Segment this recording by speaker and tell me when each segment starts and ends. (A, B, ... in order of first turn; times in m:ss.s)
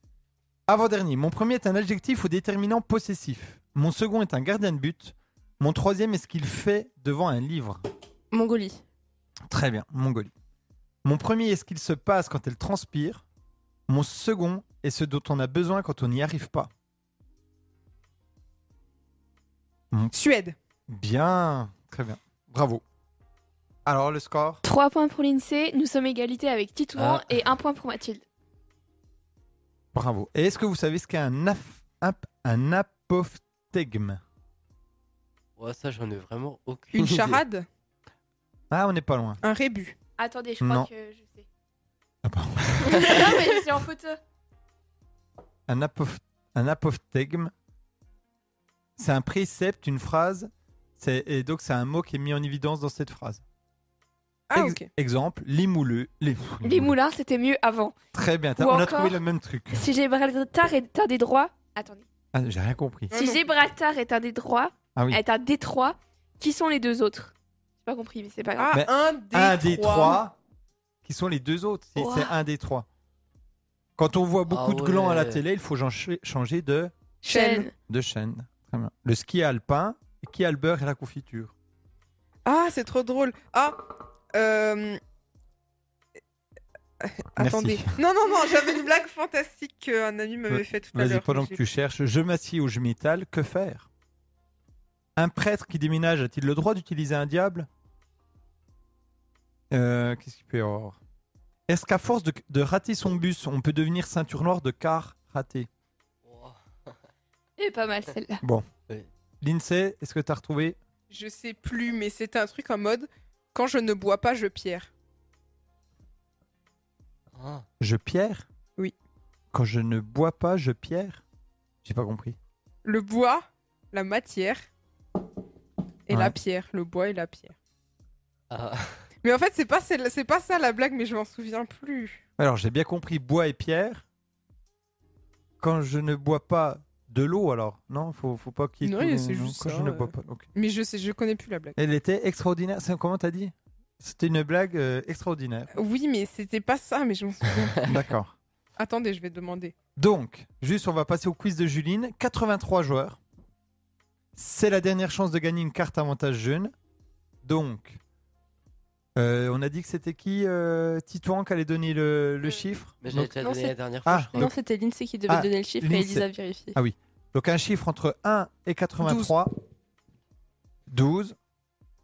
0:00.7-0:07.8 A
0:08.3-0:08.8 B
0:09.5-0:10.3 A
0:11.0-0:13.2 A
0:13.9-0:16.7 A
0:20.1-0:20.6 C
0:20.9-0:22.8 A
0:23.9-0:24.6 A
0:24.6-0:28.2 D
0:27.0-0:27.3 E
0:29.9-0:34.2 A
0:35.6-0:37.4 E
0:36.9-0:37.7 C
0:38.7-0:39.4 A
0:39.4-0:40.0 C
0:40.2-0:41.5 D
0:40.6-0:40.9 A
0:42.2-0:43.1 A
0:42.9-0:44.2 D
0:45.7-0:47.5 A
0:49.0-0:53.4 A
0:54.5-0:54.9 C
0:54.5-0:57.0 A
0:56.6-0:58.0 D
0:58.1-0:59.8 A
0:58.6-0:59.2 D
0:59.7-1:02.1 D
1:02.3-1:03.1 A
1:03.1-1:03.5 C
1:03.1-1:08.8 D
1:05.0-1:05.2 A
1:08.6-1:10.2 C
1:08.7-1:10.4 A
1:11.0-1:12.9 A
1:12.0-1:12.3 D
1:14.0-1:16.9 A
1:14.5-1:15.4 E
1:17.2-1:17.7 D
1:17.3-1:17.7 C
1:17.9-1:21.5 A
1:22.5-1:23.8 C
1:24.3-1:25.0 C
1:27.0-1:31.6 C
1:27.4-1:28.0 A
1:30.5-1:33.9 A
1:35.2-1:37.7 A
1:39.7-1:41.0 A
1:41.7-1:45.7 A
1:46.2-1:47.0 E
1:47.6-1:48.4 D
1:49.4-1:50.8 A
1:51.1-1:54.9 C
1:57.3-1:57.7 E
1:57.8-1:58.5 A
1:59.5-2:01.2 A
2:01.8-2:02.4 A
2:02.8-2:04.7 C
2:06.1-2:07.6 C
2:06.1-2:06.4 A
2:08.5-2:09.0 E
2:09.2-2:12.2 C
2:12.4-2:14.0 A
2:15.6-2:20.5 A
2:18.8-2:21.8 C
2:21.8-2:25.7 A
2:25.7-2:28.0 C
2:27.9-2:28.4 A
2:28.8-2:29.8 C
2:30.0-2:33.2 A
2:34.4-2:36.7 A
2:37.4-2:38.0 A
2:39.2-2:43.4 A
2:43.0-2:44.5 E
2:43.4-2:43.8 B
2:44.0-2:44.5 A
2:44.3-2:46.8 B
2:45.3-2:49.5 A
2:49.0-2:49.4 C
2:50.9-2:51.4 A